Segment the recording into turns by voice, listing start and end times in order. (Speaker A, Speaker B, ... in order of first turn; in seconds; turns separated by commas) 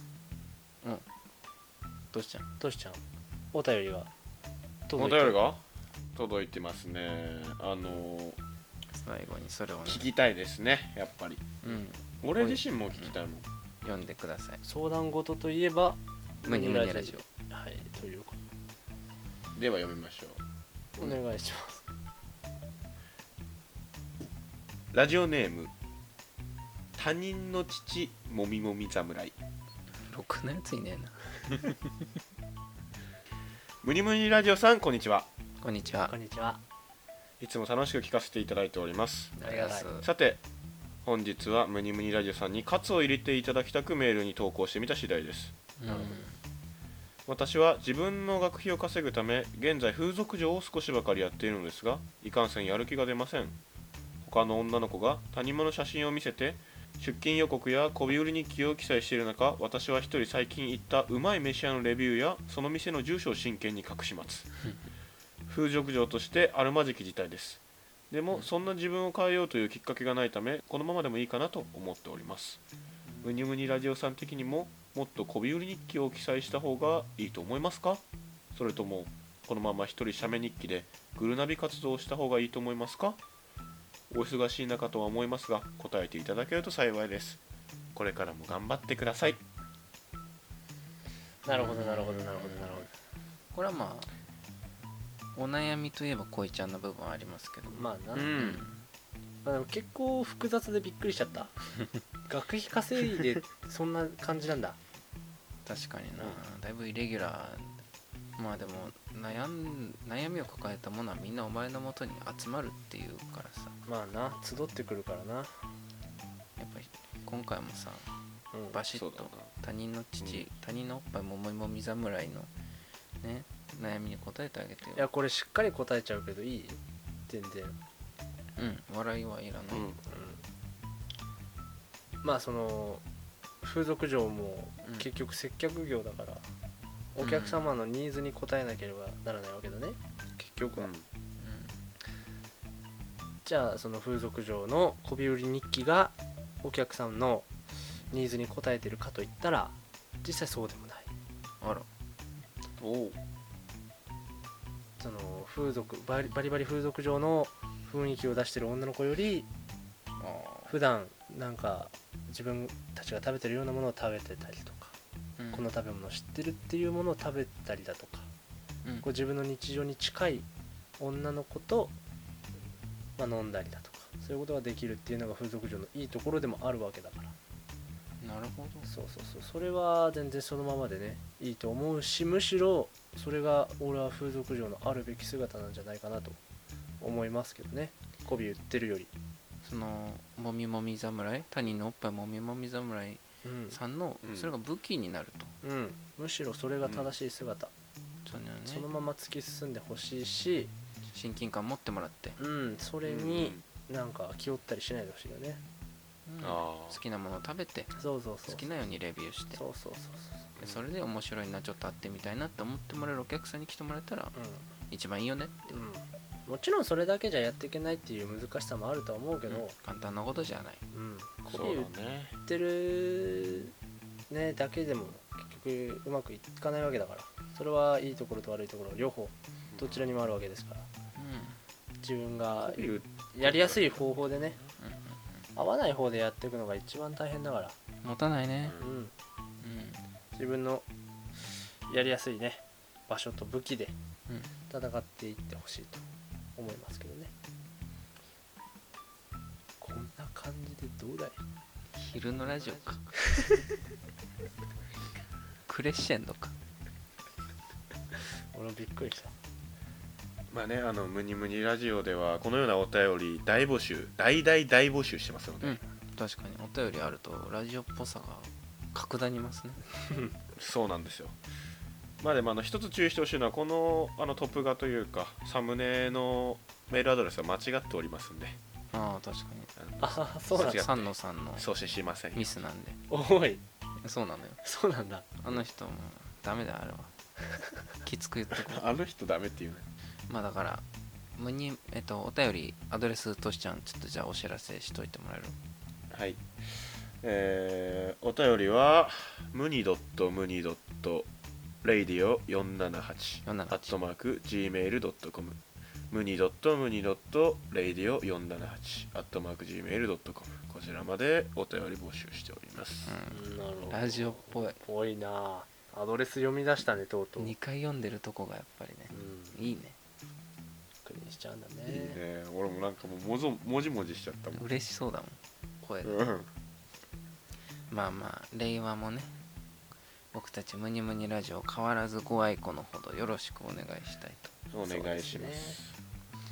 Speaker A: 2.1-2.5, Speaker B: 2.6-3.0, Speaker B: 3.5-4.1, Speaker B: 4.9-5.4, Speaker C: 5.0-5.6, Speaker C: 6.1-8.4, Speaker A: 8.9-10.1, Speaker C: 9.9-11.4, Speaker A: 11.6-13.1, Speaker C: 12.2-13.4, Speaker A: 13.8-14.6, Speaker B: 14.7-18.4, Speaker A: 16.4-17.2, Speaker C: 19.6-20.4, Speaker B: 20.9-21.9, Speaker C: 24.9-25.7, Speaker C: 27.0-29.4, Speaker A: 30.0-31.8, Speaker C: 33.8-35.3, Speaker A: 35.6-36.1, Speaker B: 36.0-36.6, Speaker C: 37.4-39.5, Speaker B: 39.4-39.9, Speaker A: 39.4-40.1, Speaker C: 40.0-40.4, Speaker C: 41.0-45.5, Speaker A: 45.8-46.4, Speaker B: 45.9-46.3, Speaker C: 47.3-53.6, Speaker C: 54.2-64.5, Speaker C: 65.5-67.6, Speaker C: 68.1-72.6, Speaker C: 73.2-78.0, Speaker C: 78.5-83.2, Speaker C: 84.1-87.4, Speaker C: 87.9-89.4, Speaker B: 91.5-92.9, Speaker A: 91.5-92.8, Speaker A: 93.5-94.1, Speaker A: 95.3-98.8, Speaker B: 97.7-98.5, Speaker C: 98.1-98.6, Speaker B: 99.5-101.5, Speaker B: 102.3-104.8, Speaker A: 105.7-107.8, Speaker A: 108.4-113.8, Speaker B: 113.9-115.6, Speaker A: 116.6-118.1, Speaker B: 118.5-118.8, Speaker A: 118.7-122.5, Speaker C: 118.9-119.5, Speaker A: 123.2-125.1, Speaker B: 125.0-127.8, Speaker A: 128.6-129.9, Speaker C: 129.7-130.0, Speaker B: 130.1-130.4, Speaker B: 132.2-133.0, Speaker B: 133.6-136.4, Speaker B: 137.2-140.9, Speaker A: 137.2-137.6, Speaker C: 140.8-141.1, Speaker A: 141.4-141.8, Speaker B: 143.4-147.5, Speaker B: 148.1-151.1, Speaker A: 151.6-151.9, Speaker C: 152.8-153.2, Speaker B: 155.0-159.5, Speaker A: 160.2-160.7, Speaker B: 160.7-164.9, Speaker A: 165.4-165.7, Speaker B: 165.5-168.3, Speaker B: 169.0-170.5, Speaker B: 171.0-171.9, Speaker B: 173.2-177.3, Speaker A: 178.2-178.9, Speaker B: 178.8-186.4, Speaker B: 187.0-189.1, Speaker A: 189.6-195.5, Speaker B: 193.4-193.8, Speaker C: 194.2-194.5, Speaker B: 195.6-197.7, Speaker C: 196.8-197.1, Speaker A: 198.2-198.9, Speaker B: 198.7-200.7, Speaker A: 201.1-202.4, Speaker B: 202.4-205.6, Speaker C: 203.0-203.6, Speaker A: 206.3-209.6, Speaker C: 206.4-207.0, Speaker B: 208.0-208.7, Speaker B: 209.5-210.6, Speaker A: 210.6-214.3, Speaker B: 214.3-214.7, Speaker A: 214.9-215.8, Speaker B: 215.7-219.8, Speaker A: 219.8-220.8, Speaker B: 220.9-221.9, Speaker C: 221.5-222.4, Speaker B: 222.5-223.7, Speaker B: 224.3-230.9, Speaker C: 229.7-230.1, Speaker A: 231.2-231.6, Speaker B: 232.0-234.6, Speaker C: 232.6-234.1, Speaker A: 234.8-235.2, Speaker B: 235.6-237.8, Speaker A: 238.0-238.8, Speaker B: 238.8-239.1, Speaker A: 239.6-240.0, Speaker B: 240.3-240.8, Speaker B: 241.9-243.9, Speaker B: 244.7-246.0, Speaker B: 246.6-247.3, Speaker B: 249.8-251.4, Speaker A: 251.9-253.2, Speaker A: 255.7-256.5, Speaker B: 258.5-259.3, Speaker C: 260.5-265.8, Speaker A: 265.6-269.8, Speaker C: 270.6-271.4, Speaker C: 272.2-278.6, Speaker A: 278.9-279.7, Speaker C: 279.8-282.6, Speaker B: 280.0-280.9, Speaker A: 280.5-281.7, Speaker A: 282.3-283.0, Speaker B: 283.1-283.6, Speaker A: 284.0-284.6, Speaker B: 284.6-285.2, Speaker A: 285.4-287.1, Speaker A: 288.0-288.8, Speaker C: 288.7-289.9, Speaker A: 290.3-290.9, Speaker A: 291.4-295.6, Speaker C: 296.1-301.3, Speaker C: 301.8-305.6, Speaker A: 303.4-303.9, Speaker C: 306.1-313.2, Speaker A: 313.1-314.8, Speaker B: 313.3-317.5, Speaker A: 317.4-320.0, Speaker B: 319.1-319.6, Speaker B: 321.1-322.2, Speaker C: 321.9-324.6, Speaker A: 324.5-326.2, Speaker C: 326.0-326.5, Speaker A: 327.9-329.4, Speaker A: 330.3-334.6, Speaker C: 334.7-335.9, Speaker B: 334.8-335.8